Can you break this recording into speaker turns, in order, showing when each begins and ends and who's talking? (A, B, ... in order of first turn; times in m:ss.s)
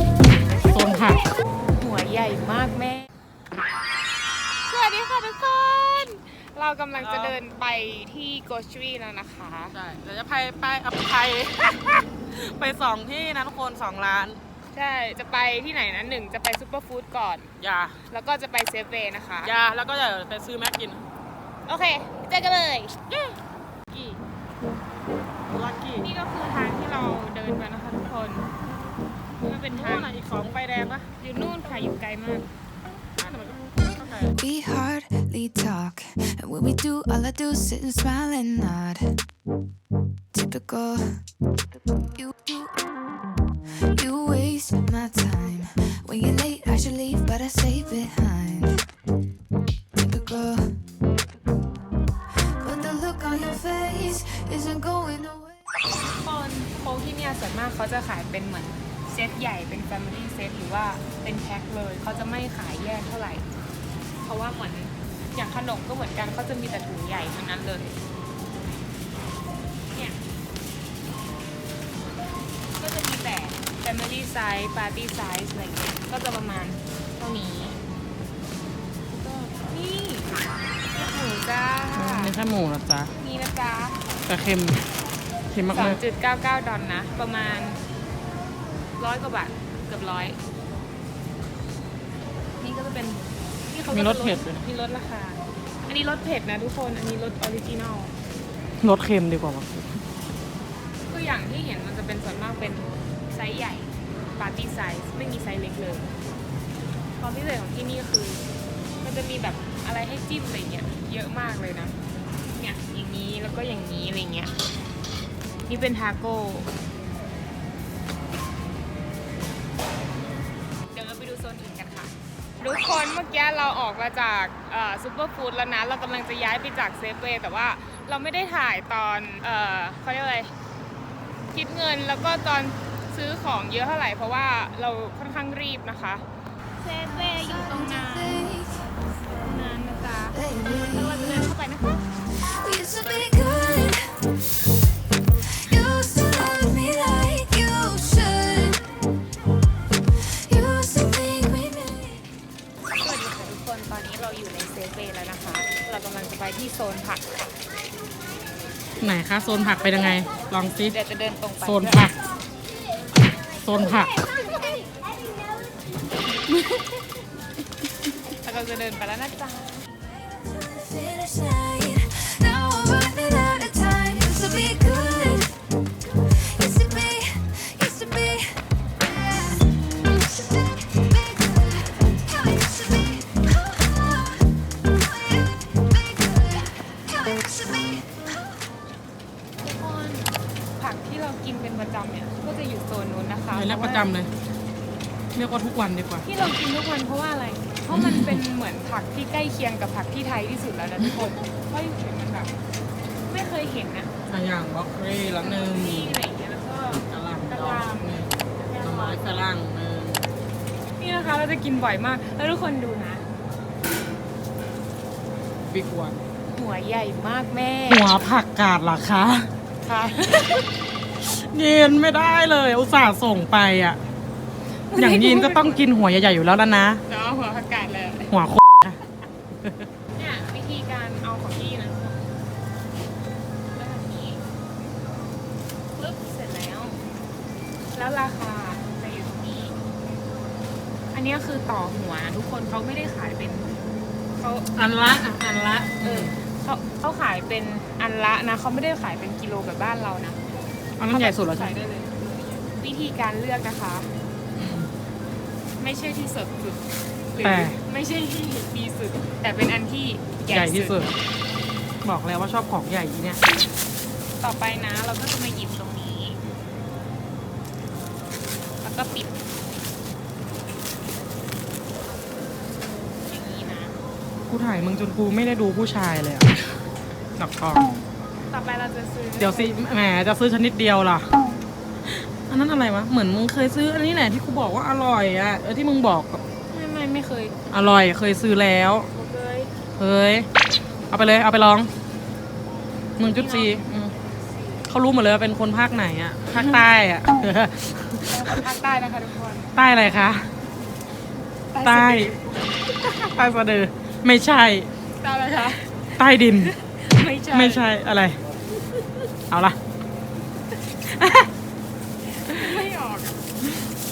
0:00.6-0:01.3 A
0:01.8-0:03.1 B
0:04.7-0:09.8 B
0:07.0-0:07.4 A
0:09.7-0:14.4 A
0:14.7-0:17.5 B
0:17.6-0:18.0 A
0:18.1-0:19.5 B
0:19.4-0:21.0 A
0:21.7-0:23.0 B
0:23.9-0:24.2 A
0:25.5-0:26.1 A
0:26.0-0:28.5 B
0:29.4-0:30.2 B
0:29.7-0:31.1 A
0:31.2-0:32.5 B
0:33.2-0:34.4 A
0:34.3-0:39.2 C
0:40.3-0:41.2 C
0:42.0-0:42.7 C
0:43.8-0:48.9 C
0:50.0-0:50.8 C
0:52.5-0:55.6 C
0:56.0-1:03.5 B
1:04.2-1:08.0 B
1:09.9-1:10.2 B
1:12.8-1:17.8 B
1:19.1-1:20.4 B
1:20.9-1:22.3 B
1:21.9-1:23.1 A
1:23.2-1:24.0 B
1:24.3-1:24.8 A
1:25.5-1:26.0 A
1:25.7-1:27.8 B
1:29.0-1:30.4 B
1:32.6-1:38.2 B
1:33.9-1:34.6 A
1:38.8-1:40.0 A
1:41.1-1:46.1 B
1:47.2-1:48.4 B
1:49.0-1:54.5 B
1:55.7-1:56.7 B
2:00.9-2:10.5 B
2:11.5-2:16.2 B
2:16.8-2:18.5 B
2:17.1-2:19.0 C
2:19.2-2:22.0 B
2:20.3-2:21.5 C
2:22.2-2:24.3 C
2:25.4-2:29.0 C
2:30.1-2:32.2 C
2:33.0-2:37.6 B
2:39.0-2:40.9 A
2:40.9-2:42.1 B
2:41.6-2:42.2 A
2:43.6-2:44.2 A
2:48.4-2:49.8 B
2:50.3-2:55.6 C
2:56.2-3:04.4 C
3:07.1-3:08.0 C
3:09.6-3:14.1 B
3:13.5-3:14.3 A
3:15.4-3:16.2 A
3:16.2-3:22.6 B
3:17.9-3:18.4 A
3:21.0-3:21.3 A
3:23.2-3:24.1 B
3:24.3-3:26.2 A
3:25.4-3:29.2 B
3:26.9-3:30.3 A
3:31.0-3:33.3 B
3:35.6-3:36.3 A
3:36.5-3:38.1 B
3:37.9-3:39.5 A
3:39.8-3:40.7 B
3:41.2-3:44.0 A
3:44.9-3:45.9 B
3:45.0-3:47.0 A
3:47.1-3:48.3 B
3:48.3-3:49.0 A
3:50.2-3:52.3 B
3:53.7-3:54.4 B
3:56.0-3:57.0 B
3:57.9-3:59.8 B
4:01.1-4:03.7 B
4:04.4-4:04.7 B
4:04.8-4:06.4 A
4:06.0-4:10.4 B
4:11.0-4:11.8 A
4:11.0-4:14.1 B
4:14.6-4:14.9 A
4:15.8-4:21.1 B
4:17.4-4:17.8 A
4:20.5-4:21.1 A
4:22.0-4:23.4 A
4:24.4-4:26.4 B
4:28.8-4:29.4 B
4:33.2-4:34.0 B
4:34.5-4:36.5 A
4:37.4-4:37.9 A
4:38.5-4:39.8 B
4:39.4-4:41.3 A
4:42.0-4:46.4 A
4:46.7-4:47.6 B
4:47.7-4:49.1 A
4:49.1-4:49.8 B
4:49.9-4:50.5 A
4:51.1-4:51.9 A
4:53.2-4:54.1 A
4:53.2-4:53.9 B
4:54.9-4:58.6 A
4:58.3-4:59.8 B
4:59.8-5:00.5 A
5:01.7-5:02.6 B
5:01.8-5:04.9 A
5:05.2-5:07.9 B
5:06.2-5:06.7 A
5:07.5-5:08.4 A
5:09.5-5:09.8 A
5:11.0-5:11.5 A
5:12.2-5:13.5 B